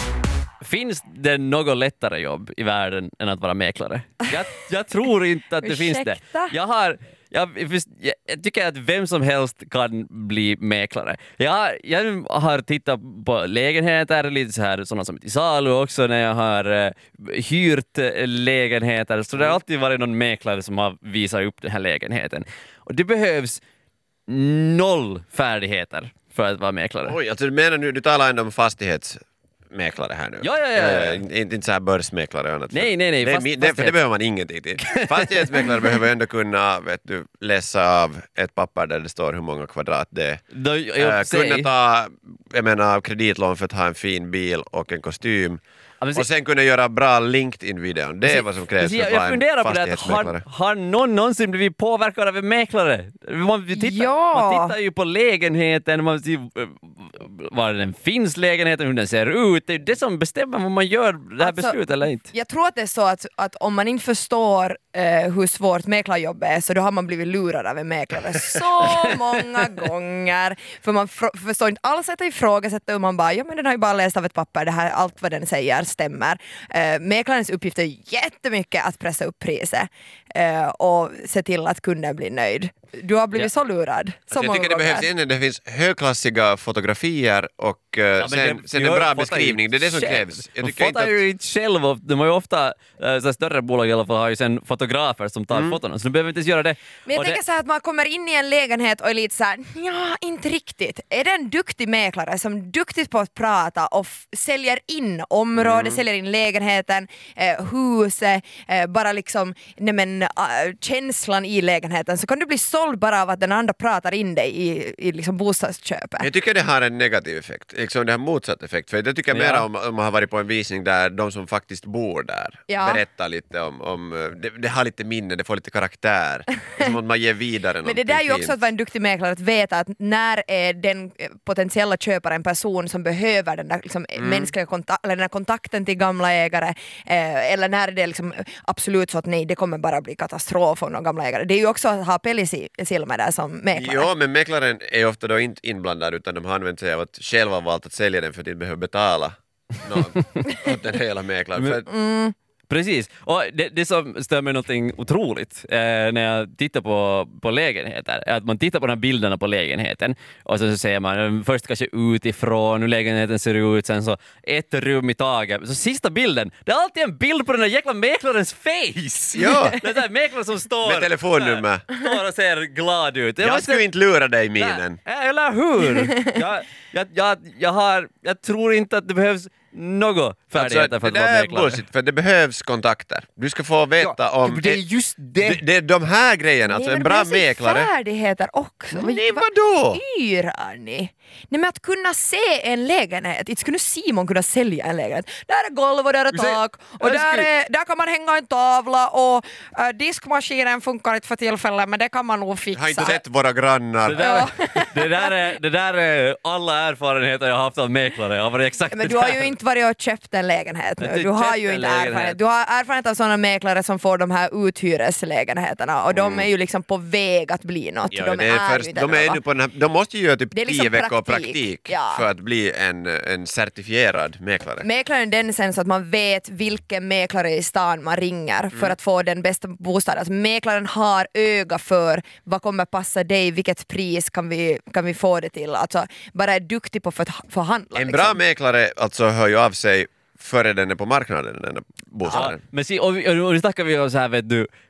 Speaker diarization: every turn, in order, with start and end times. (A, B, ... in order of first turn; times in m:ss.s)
0:00.6-0:23.6 A
0:05.6-0:06.5 B
0:24.3-0:27.2 A
0:27.1-0:29.2 C
0:29.7-0:40.4 C
0:30.4-0:31.2 A
0:32.7-0:34.0 A
0:34.9-0:36.0 A
0:40.5-0:41.7 A
0:41.0-0:45.6 C
0:46.1-0:50.4 C
0:48.2-1:02.3 A
0:53.7-0:54.7 B
1:01.4-1:01.8 B
1:02.3-1:25.1 B
1:08.8-1:09.9 A
1:24.3-1:31.2 C
1:28.2-1:37.4 A
1:35.5-1:35.8 C
1:37.1-1:56.3 B
1:45.6-1:46.0 C
1:56.2-2:08.6 C
1:59.3-1:59.7 A
2:02.7-2:03.0 B
2:07.8-2:24.1 B
2:14.2-2:14.5 C
2:23.7-2:31.9 C
2:31.9-2:32.3 B
2:32.7-2:53.9 A
2:49.3-2:49.8 C
2:50.8-2:51.9 C
2:53.4-2:55.0 C
2:54.6-3:01.8 A
3:00.5-3:04.8 C
3:04.0-3:05.6 A
3:05.4-3:07.9 C
3:06.6-3:23.2 B
3:08.9-3:10.0 C
3:16.3-3:17.5 A
3:22.7-3:24.2 C
3:24.0-3:29.5 A
3:24.2-3:25.3 B
3:28.9-3:39.4 B
3:31.0-3:32.4 A
3:36.1-3:36.5 C
3:38.1-3:44.9 C
3:40.5-3:42.2 B
3:44.8-3:58.4 B
3:57.9-4:02.6 C
4:02.2-4:04.7 A